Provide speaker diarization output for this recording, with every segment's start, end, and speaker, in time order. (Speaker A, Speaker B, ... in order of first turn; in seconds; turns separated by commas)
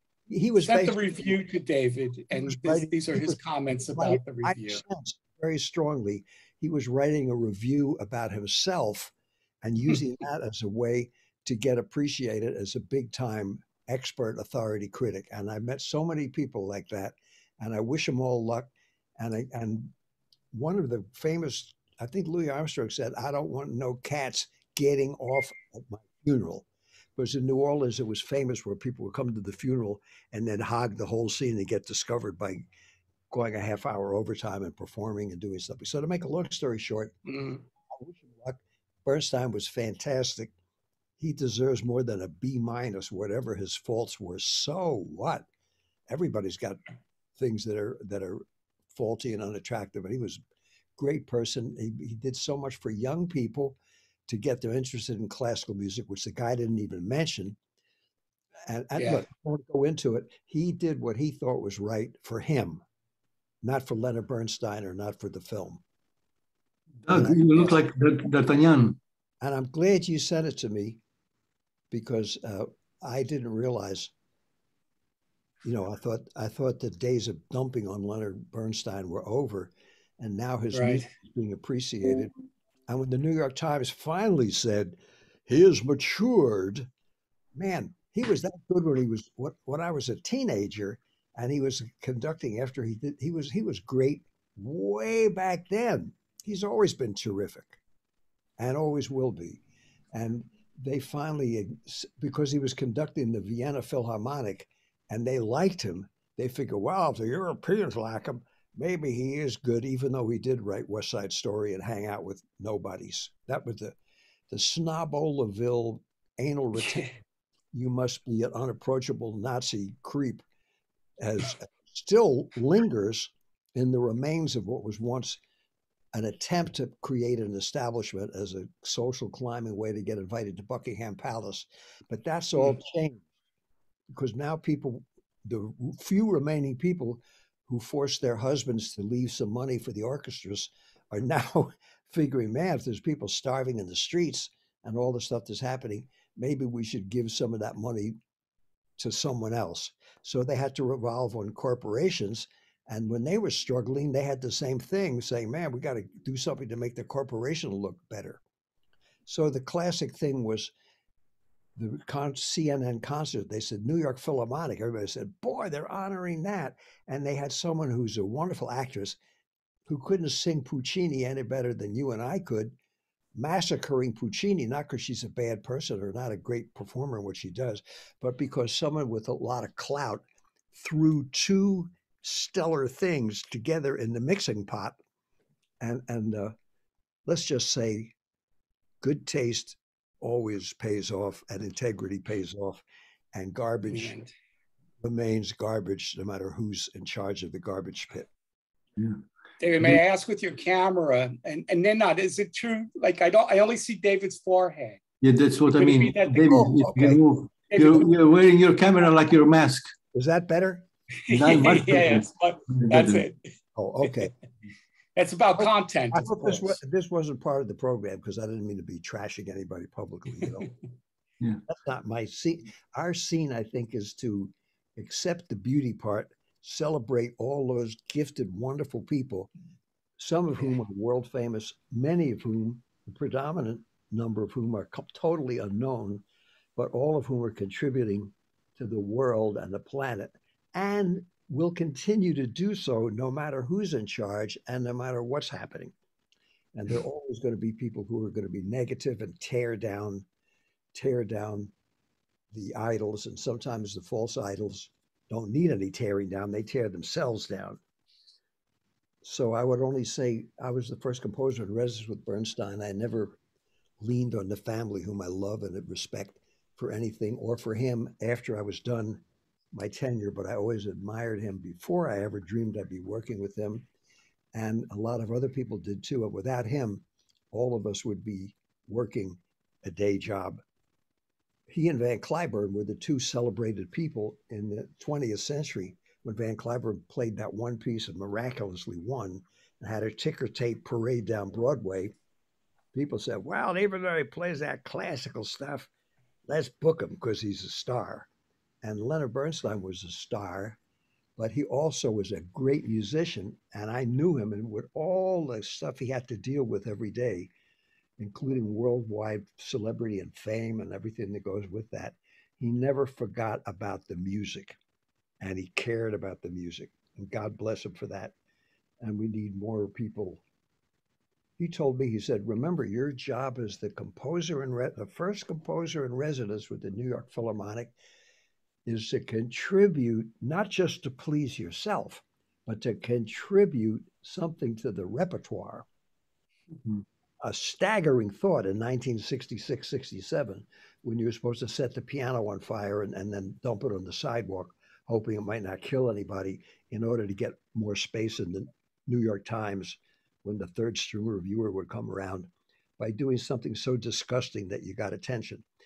Speaker A: 0.3-1.2, Speaker B: 0.6-4.8, Speaker A: 2.3-3.4, Speaker A: 3.9-19.9, Speaker A: 20.5-32.6, Speaker A: 33.3-37.1, Speaker B: 37.3-37.6, Speaker A: 38.0-40.5, Speaker A: 41.2-45.5, Speaker A: 46.1-46.8, Speaker A: 47.4-50.4, Speaker A: 51.0-57.6, Speaker A: 58.6-62.8, Speaker B: 59.0-59.2, Speaker A: 63.6-65.8, Speaker C: 67.0-69.0, Speaker A: 67.1-67.8, Speaker A: 69.4-71.0, Speaker A: 71.9-74.1, Speaker A: 75.6-82.3, Speaker B: 80.7-81.0, Speaker A: 82.9-86.9, Speaker A: 87.5-97.8, Speaker A: 98.6-99.6, Speaker A: 100.1-114.0, Speaker A: 114.5-117.1, Speaker A: 117.7-120.4, Speaker A: 121.2-125.4, Speaker A: 126.1-133.2, Speaker A: 134.1-148.2, Speaker A: 149.0-158.4, Speaker A: 159.3-160.7, Speaker A: 161.8-169.2, Speaker A: 169.9-172.7, Speaker A: 173.3-185.0, Speaker A: 185.8-186.5, Speaker A: 187.2-188.1, Speaker A: 189.0-194.3, Speaker B: 193.9-194.3, Speaker A: 195.0-198.3, Speaker B: 199.6-205.0, Speaker C: 205.2-209.9, Speaker B: 205.7-206.7, Speaker A: 206.5-207.2, Speaker B: 207.7-208.1, Speaker A: 210.1-210.8, Speaker B: 211.2-213.4, Speaker C: 211.3-213.2, Speaker A: 213.8-214.3, Speaker B: 215.2-216.8, Speaker A: 215.6-220.7, Speaker A: 221.7-229.5, Speaker A: 230.2-236.2, Speaker A: 236.8-245.9, Speaker A: 246.7-250.2, Speaker A: 250.9-251.7, Speaker A: 252.5-257.8, Speaker A: 259.2-263.4, Speaker A: 264.0-269.2, Speaker A: 269.7-273.9, Speaker A: 274.5-280.6, Speaker A: 281.7-292.1, Speaker A: 292.9-295.9, Speaker A: 296.4-298.3, Speaker A: 298.8-300.8, Speaker A: 301.4-307.5, Speaker A: 308.2-314.8, Speaker A: 315.4-318.3, Speaker A: 319.0-320.4, Speaker A: 321.6-327.9, Speaker A: 328.9-335.9, Speaker A: 337.4-355.6